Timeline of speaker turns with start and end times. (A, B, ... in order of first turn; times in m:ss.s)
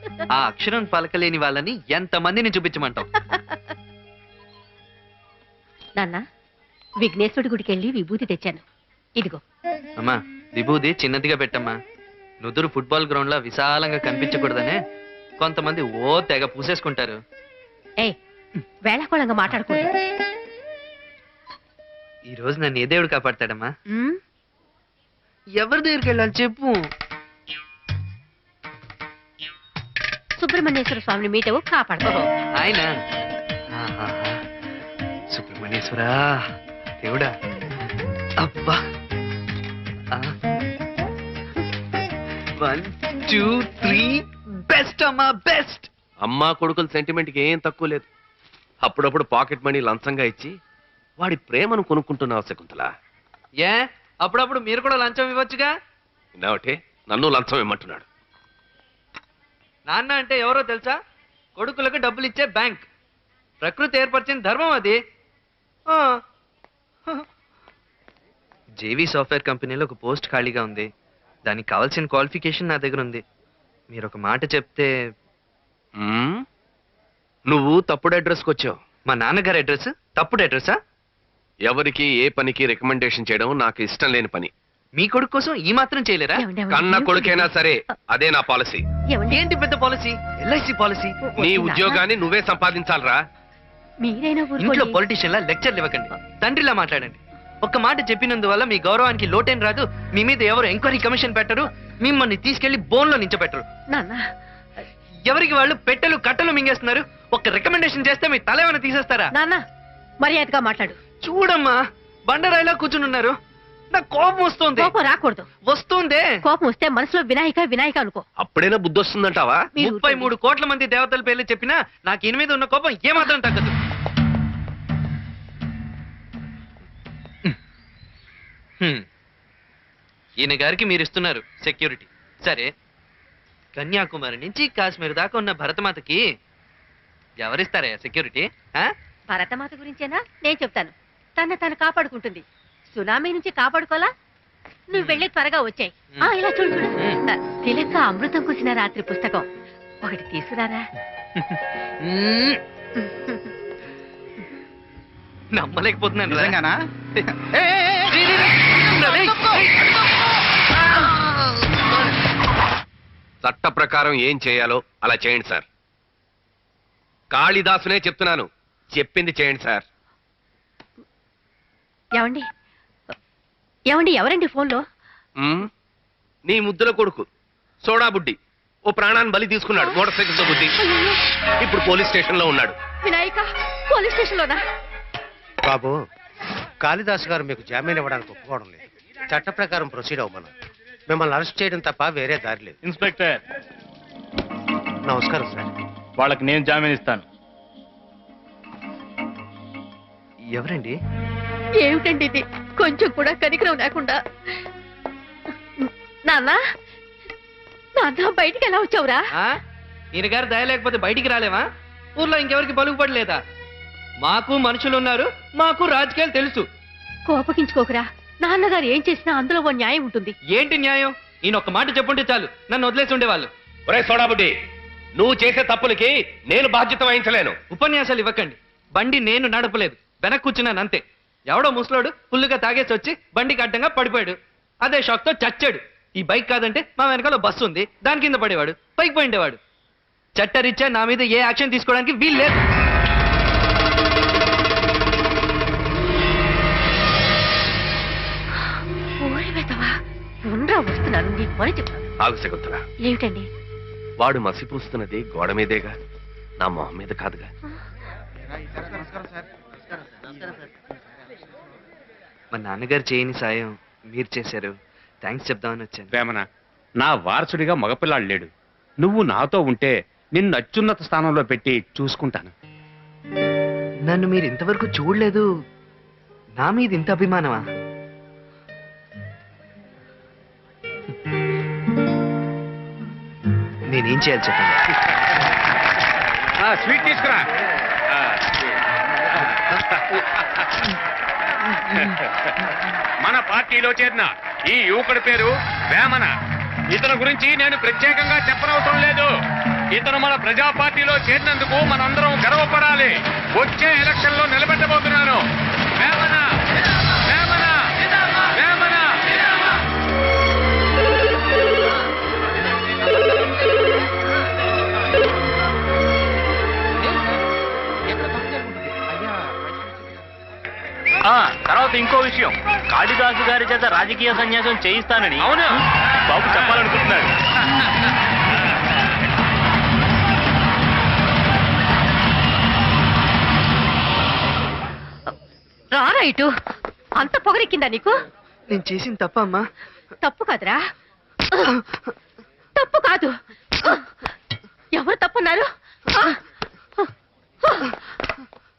0:00.3-0:03.1 A
0:06.0-0:06.2 B
0:07.0-0:08.6 B
0:10.0-0:11.8 A
0:12.4-0:14.8 A
0:15.4-0:17.2 A
0:18.8-0:19.9 B
0:22.3-0:23.7 A
0:23.9-0:24.2 B
0:25.6-0:26.8 A
0:30.4-0:32.2 B
0:32.6-0:32.9 A
0:33.7-0:34.4 A
0:35.3-0:36.4 A
0:37.0-0:37.3 A
0:38.4-0:38.8 A
0:42.6-0:45.9 A
0:46.2-0:48.0 C
0:48.8-0:50.5 C
0:51.2-0:52.9 C
0:53.6-0:55.7 A
0:56.4-0:58.0 C
0:59.9-1:01.0 A
1:01.6-1:02.8 A
1:03.6-1:05.0 A
1:08.8-1:10.9 A
1:11.5-1:13.2 A
1:13.9-1:14.9 A
1:16.0-1:16.4 C
1:17.5-1:18.8 C
1:19.1-1:20.8 A
1:21.6-1:24.5 C
1:25.0-1:26.4 A
1:26.4-1:27.5 B
1:26.7-1:28.8 C
1:29.1-1:29.4 B
1:29.3-1:31.2 A
1:31.2-1:32.0 B
1:31.4-1:33.2 C
1:34.0-1:35.0 B
1:34.6-1:43.6 A
1:43.9-1:44.2 B
1:45.2-1:49.3 A
1:49.3-1:49.6 B
1:50.2-1:51.0 B
1:51.2-1:53.4 A
1:53.9-1:54.9 A
1:54.8-1:55.5 B
1:55.6-1:56.4 A
1:56.4-1:58.2 B
1:58.4-1:59.6 C
1:59.8-2:00.3 B
1:59.8-2:03.8 A
2:10.4-2:12.7 A
2:13.8-2:16.2 A
2:17.4-2:18.9 A
2:19.3-2:24.1 B
2:24.9-2:29.4 B
2:25.0-2:25.2 A
2:30.0-2:30.9 B
2:31.4-2:32.6 A
2:33.0-2:33.4 B
2:35.5-2:36.6 A
2:37.2-2:39.7 A
2:43.4-2:45.6 C
2:47.3-2:49.8 C
2:52.2-2:52.4 B
2:53.9-2:54.8 B
2:55.4-2:55.7 C
2:56.5-2:57.2 C
2:57.8-2:58.4 C
2:58.9-3:00.7 C
3:00.8-3:01.2 B
3:01.6-3:02.8 C
3:03.0-3:04.6 B
3:05.6-3:06.0 D
3:06.8-3:10.5 D
3:11.1-3:12.8 D
3:12.8-3:13.4 E
3:15.0-3:15.7 D
3:16.2-3:17.2 E
3:20.5-3:21.0 A
3:21.8-3:24.2 B
3:25.8-3:26.6 B
3:28.0-3:29.2 B
3:30.1-3:33.4 A
3:34.2-3:36.6 A
3:37.3-3:40.3 B
3:40.5-3:43.5 A
3:43.9-3:44.5 C
3:45.2-3:47.6 C
3:47.7-3:59.6 A
4:00.4-4:02.6 A
4:09.2-4:12.1 B
4:12.2-4:12.8 C
4:13.0-4:13.4 B
4:14.2-4:15.9 C
4:16.6-4:17.5 C
4:22.5-4:26.1 A
4:26.1-4:26.4 F
4:27.0-4:28.5 F
4:29.0-4:32.5 F
4:34.1-4:35.4 A
4:36.6-4:37.6 A
4:43.9-4:44.8 A
4:46.6-4:47.4 F
4:48.1-4:48.5 F
4:49.5-4:50.2 F
4:51.9-4:52.5 F
4:53.2-4:56.3 F
4:56.9-4:59.3 F
4:59.9-5:05.4 F
5:06.0-5:06.4 F
5:07.3-5:07.8 F
5:08.5-5:09.3 F
5:21.3-5:25.5 E
5:25.4-5:25.8 F
5:26.3-5:27.3 E
5:26.4-5:26.9 F
5:35.9-5:36.5 B
5:37.2-5:38.2 B
5:38.7-5:39.7 A
5:40.2-5:40.8 B
5:42.8-5:44.0 B
5:44.9-5:46.4 B
5:47.6-5:48.0 B